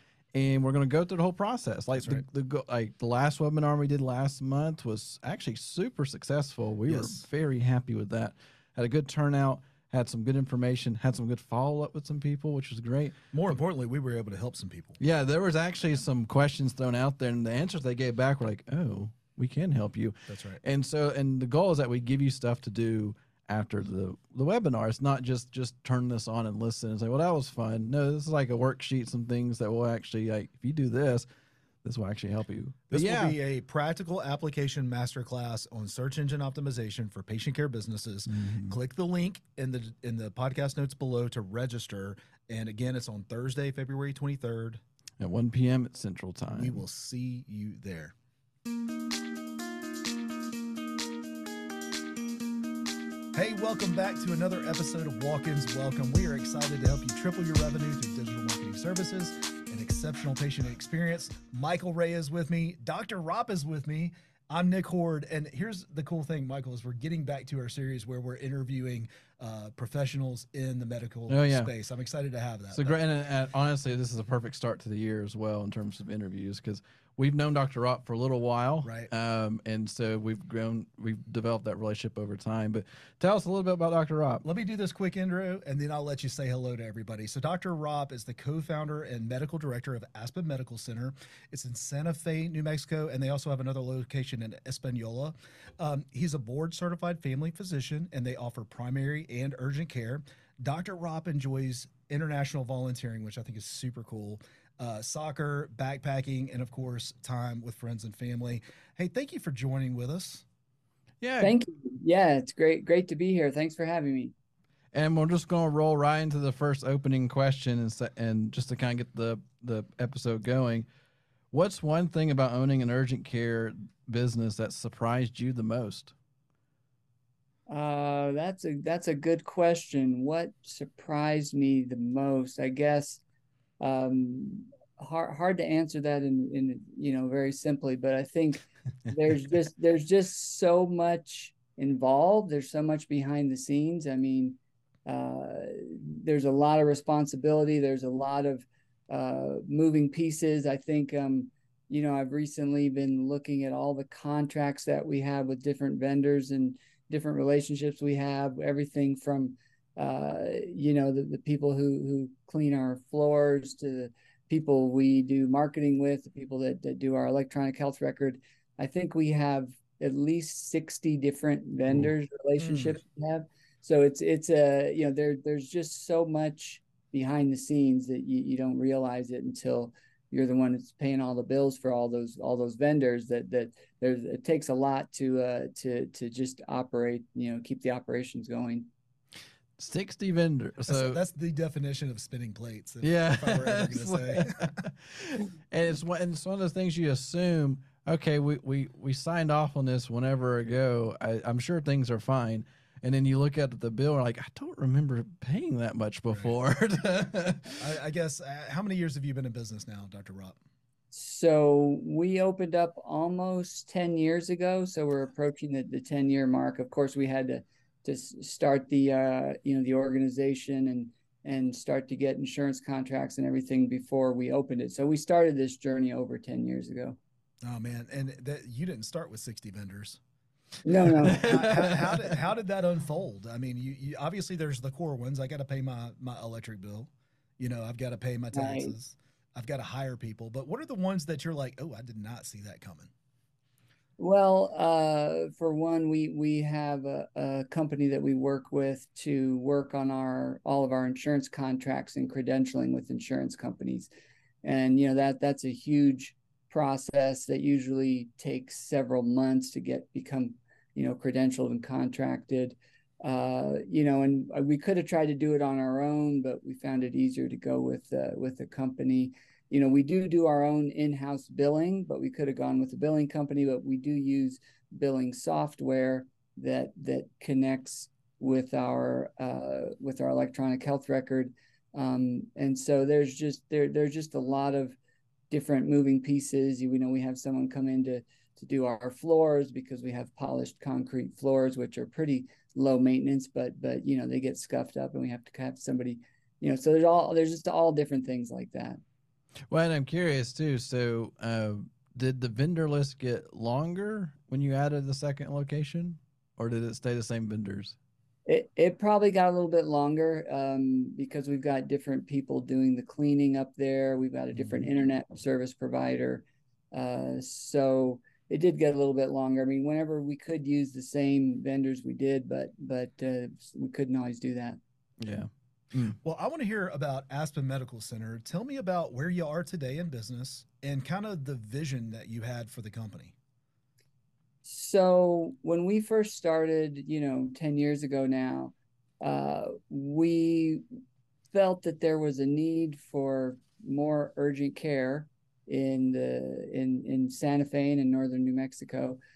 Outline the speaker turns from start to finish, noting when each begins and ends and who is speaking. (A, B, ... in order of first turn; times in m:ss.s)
0:00.3-0:13.2 A
0:01.9-0:02.2 B
0:06.9-0:07.3 B
0:13.3-0:15.0 B
0:15.0-0:31.3 A
0:20.3-0:20.6 B
0:31.8-0:33.4 A
0:32.9-0:44.8 B
0:38.3-0:38.8 A
0:45.2-0:46.8 A
0:46.6-0:48.1 B
0:53.3-1:13.0 B
1:11.3-1:11.7 A
1:12.7-1:24.4 A
1:18.8-1:19.1 B
1:24.4-1:50.4 B
1:51.2-1:51.6 A
1:51.4-1:54.3 C
1:54.9-2:00.9 A
2:01.5-2:06.1 A
2:07.7-2:13.2 C
2:13.8-3:08.9 C
2:52.6-2:53.0 B
3:09.8-3:11.2 A
3:10.9-3:14.7 B
3:13.0-3:27.8 A
3:27.8-3:30.6 B
3:31.1-3:47.2 C
3:47.6-3:50.2 B
3:50.8-3:51.6 C
3:50.9-4:03.1 B
3:51.2-3:52.3 A
3:58.5-3:58.9 C
4:04.2-4:14.1 C
4:14.6-4:45.0 C
4:45.5-4:59.0 C
4:59.7-5:08.0 A
5:08.5-5:24.8 C
5:25.2-5:26.2 A
5:26.2-5:33.4 B
5:34.6-5:40.8 C
5:41.5-5:49.2 C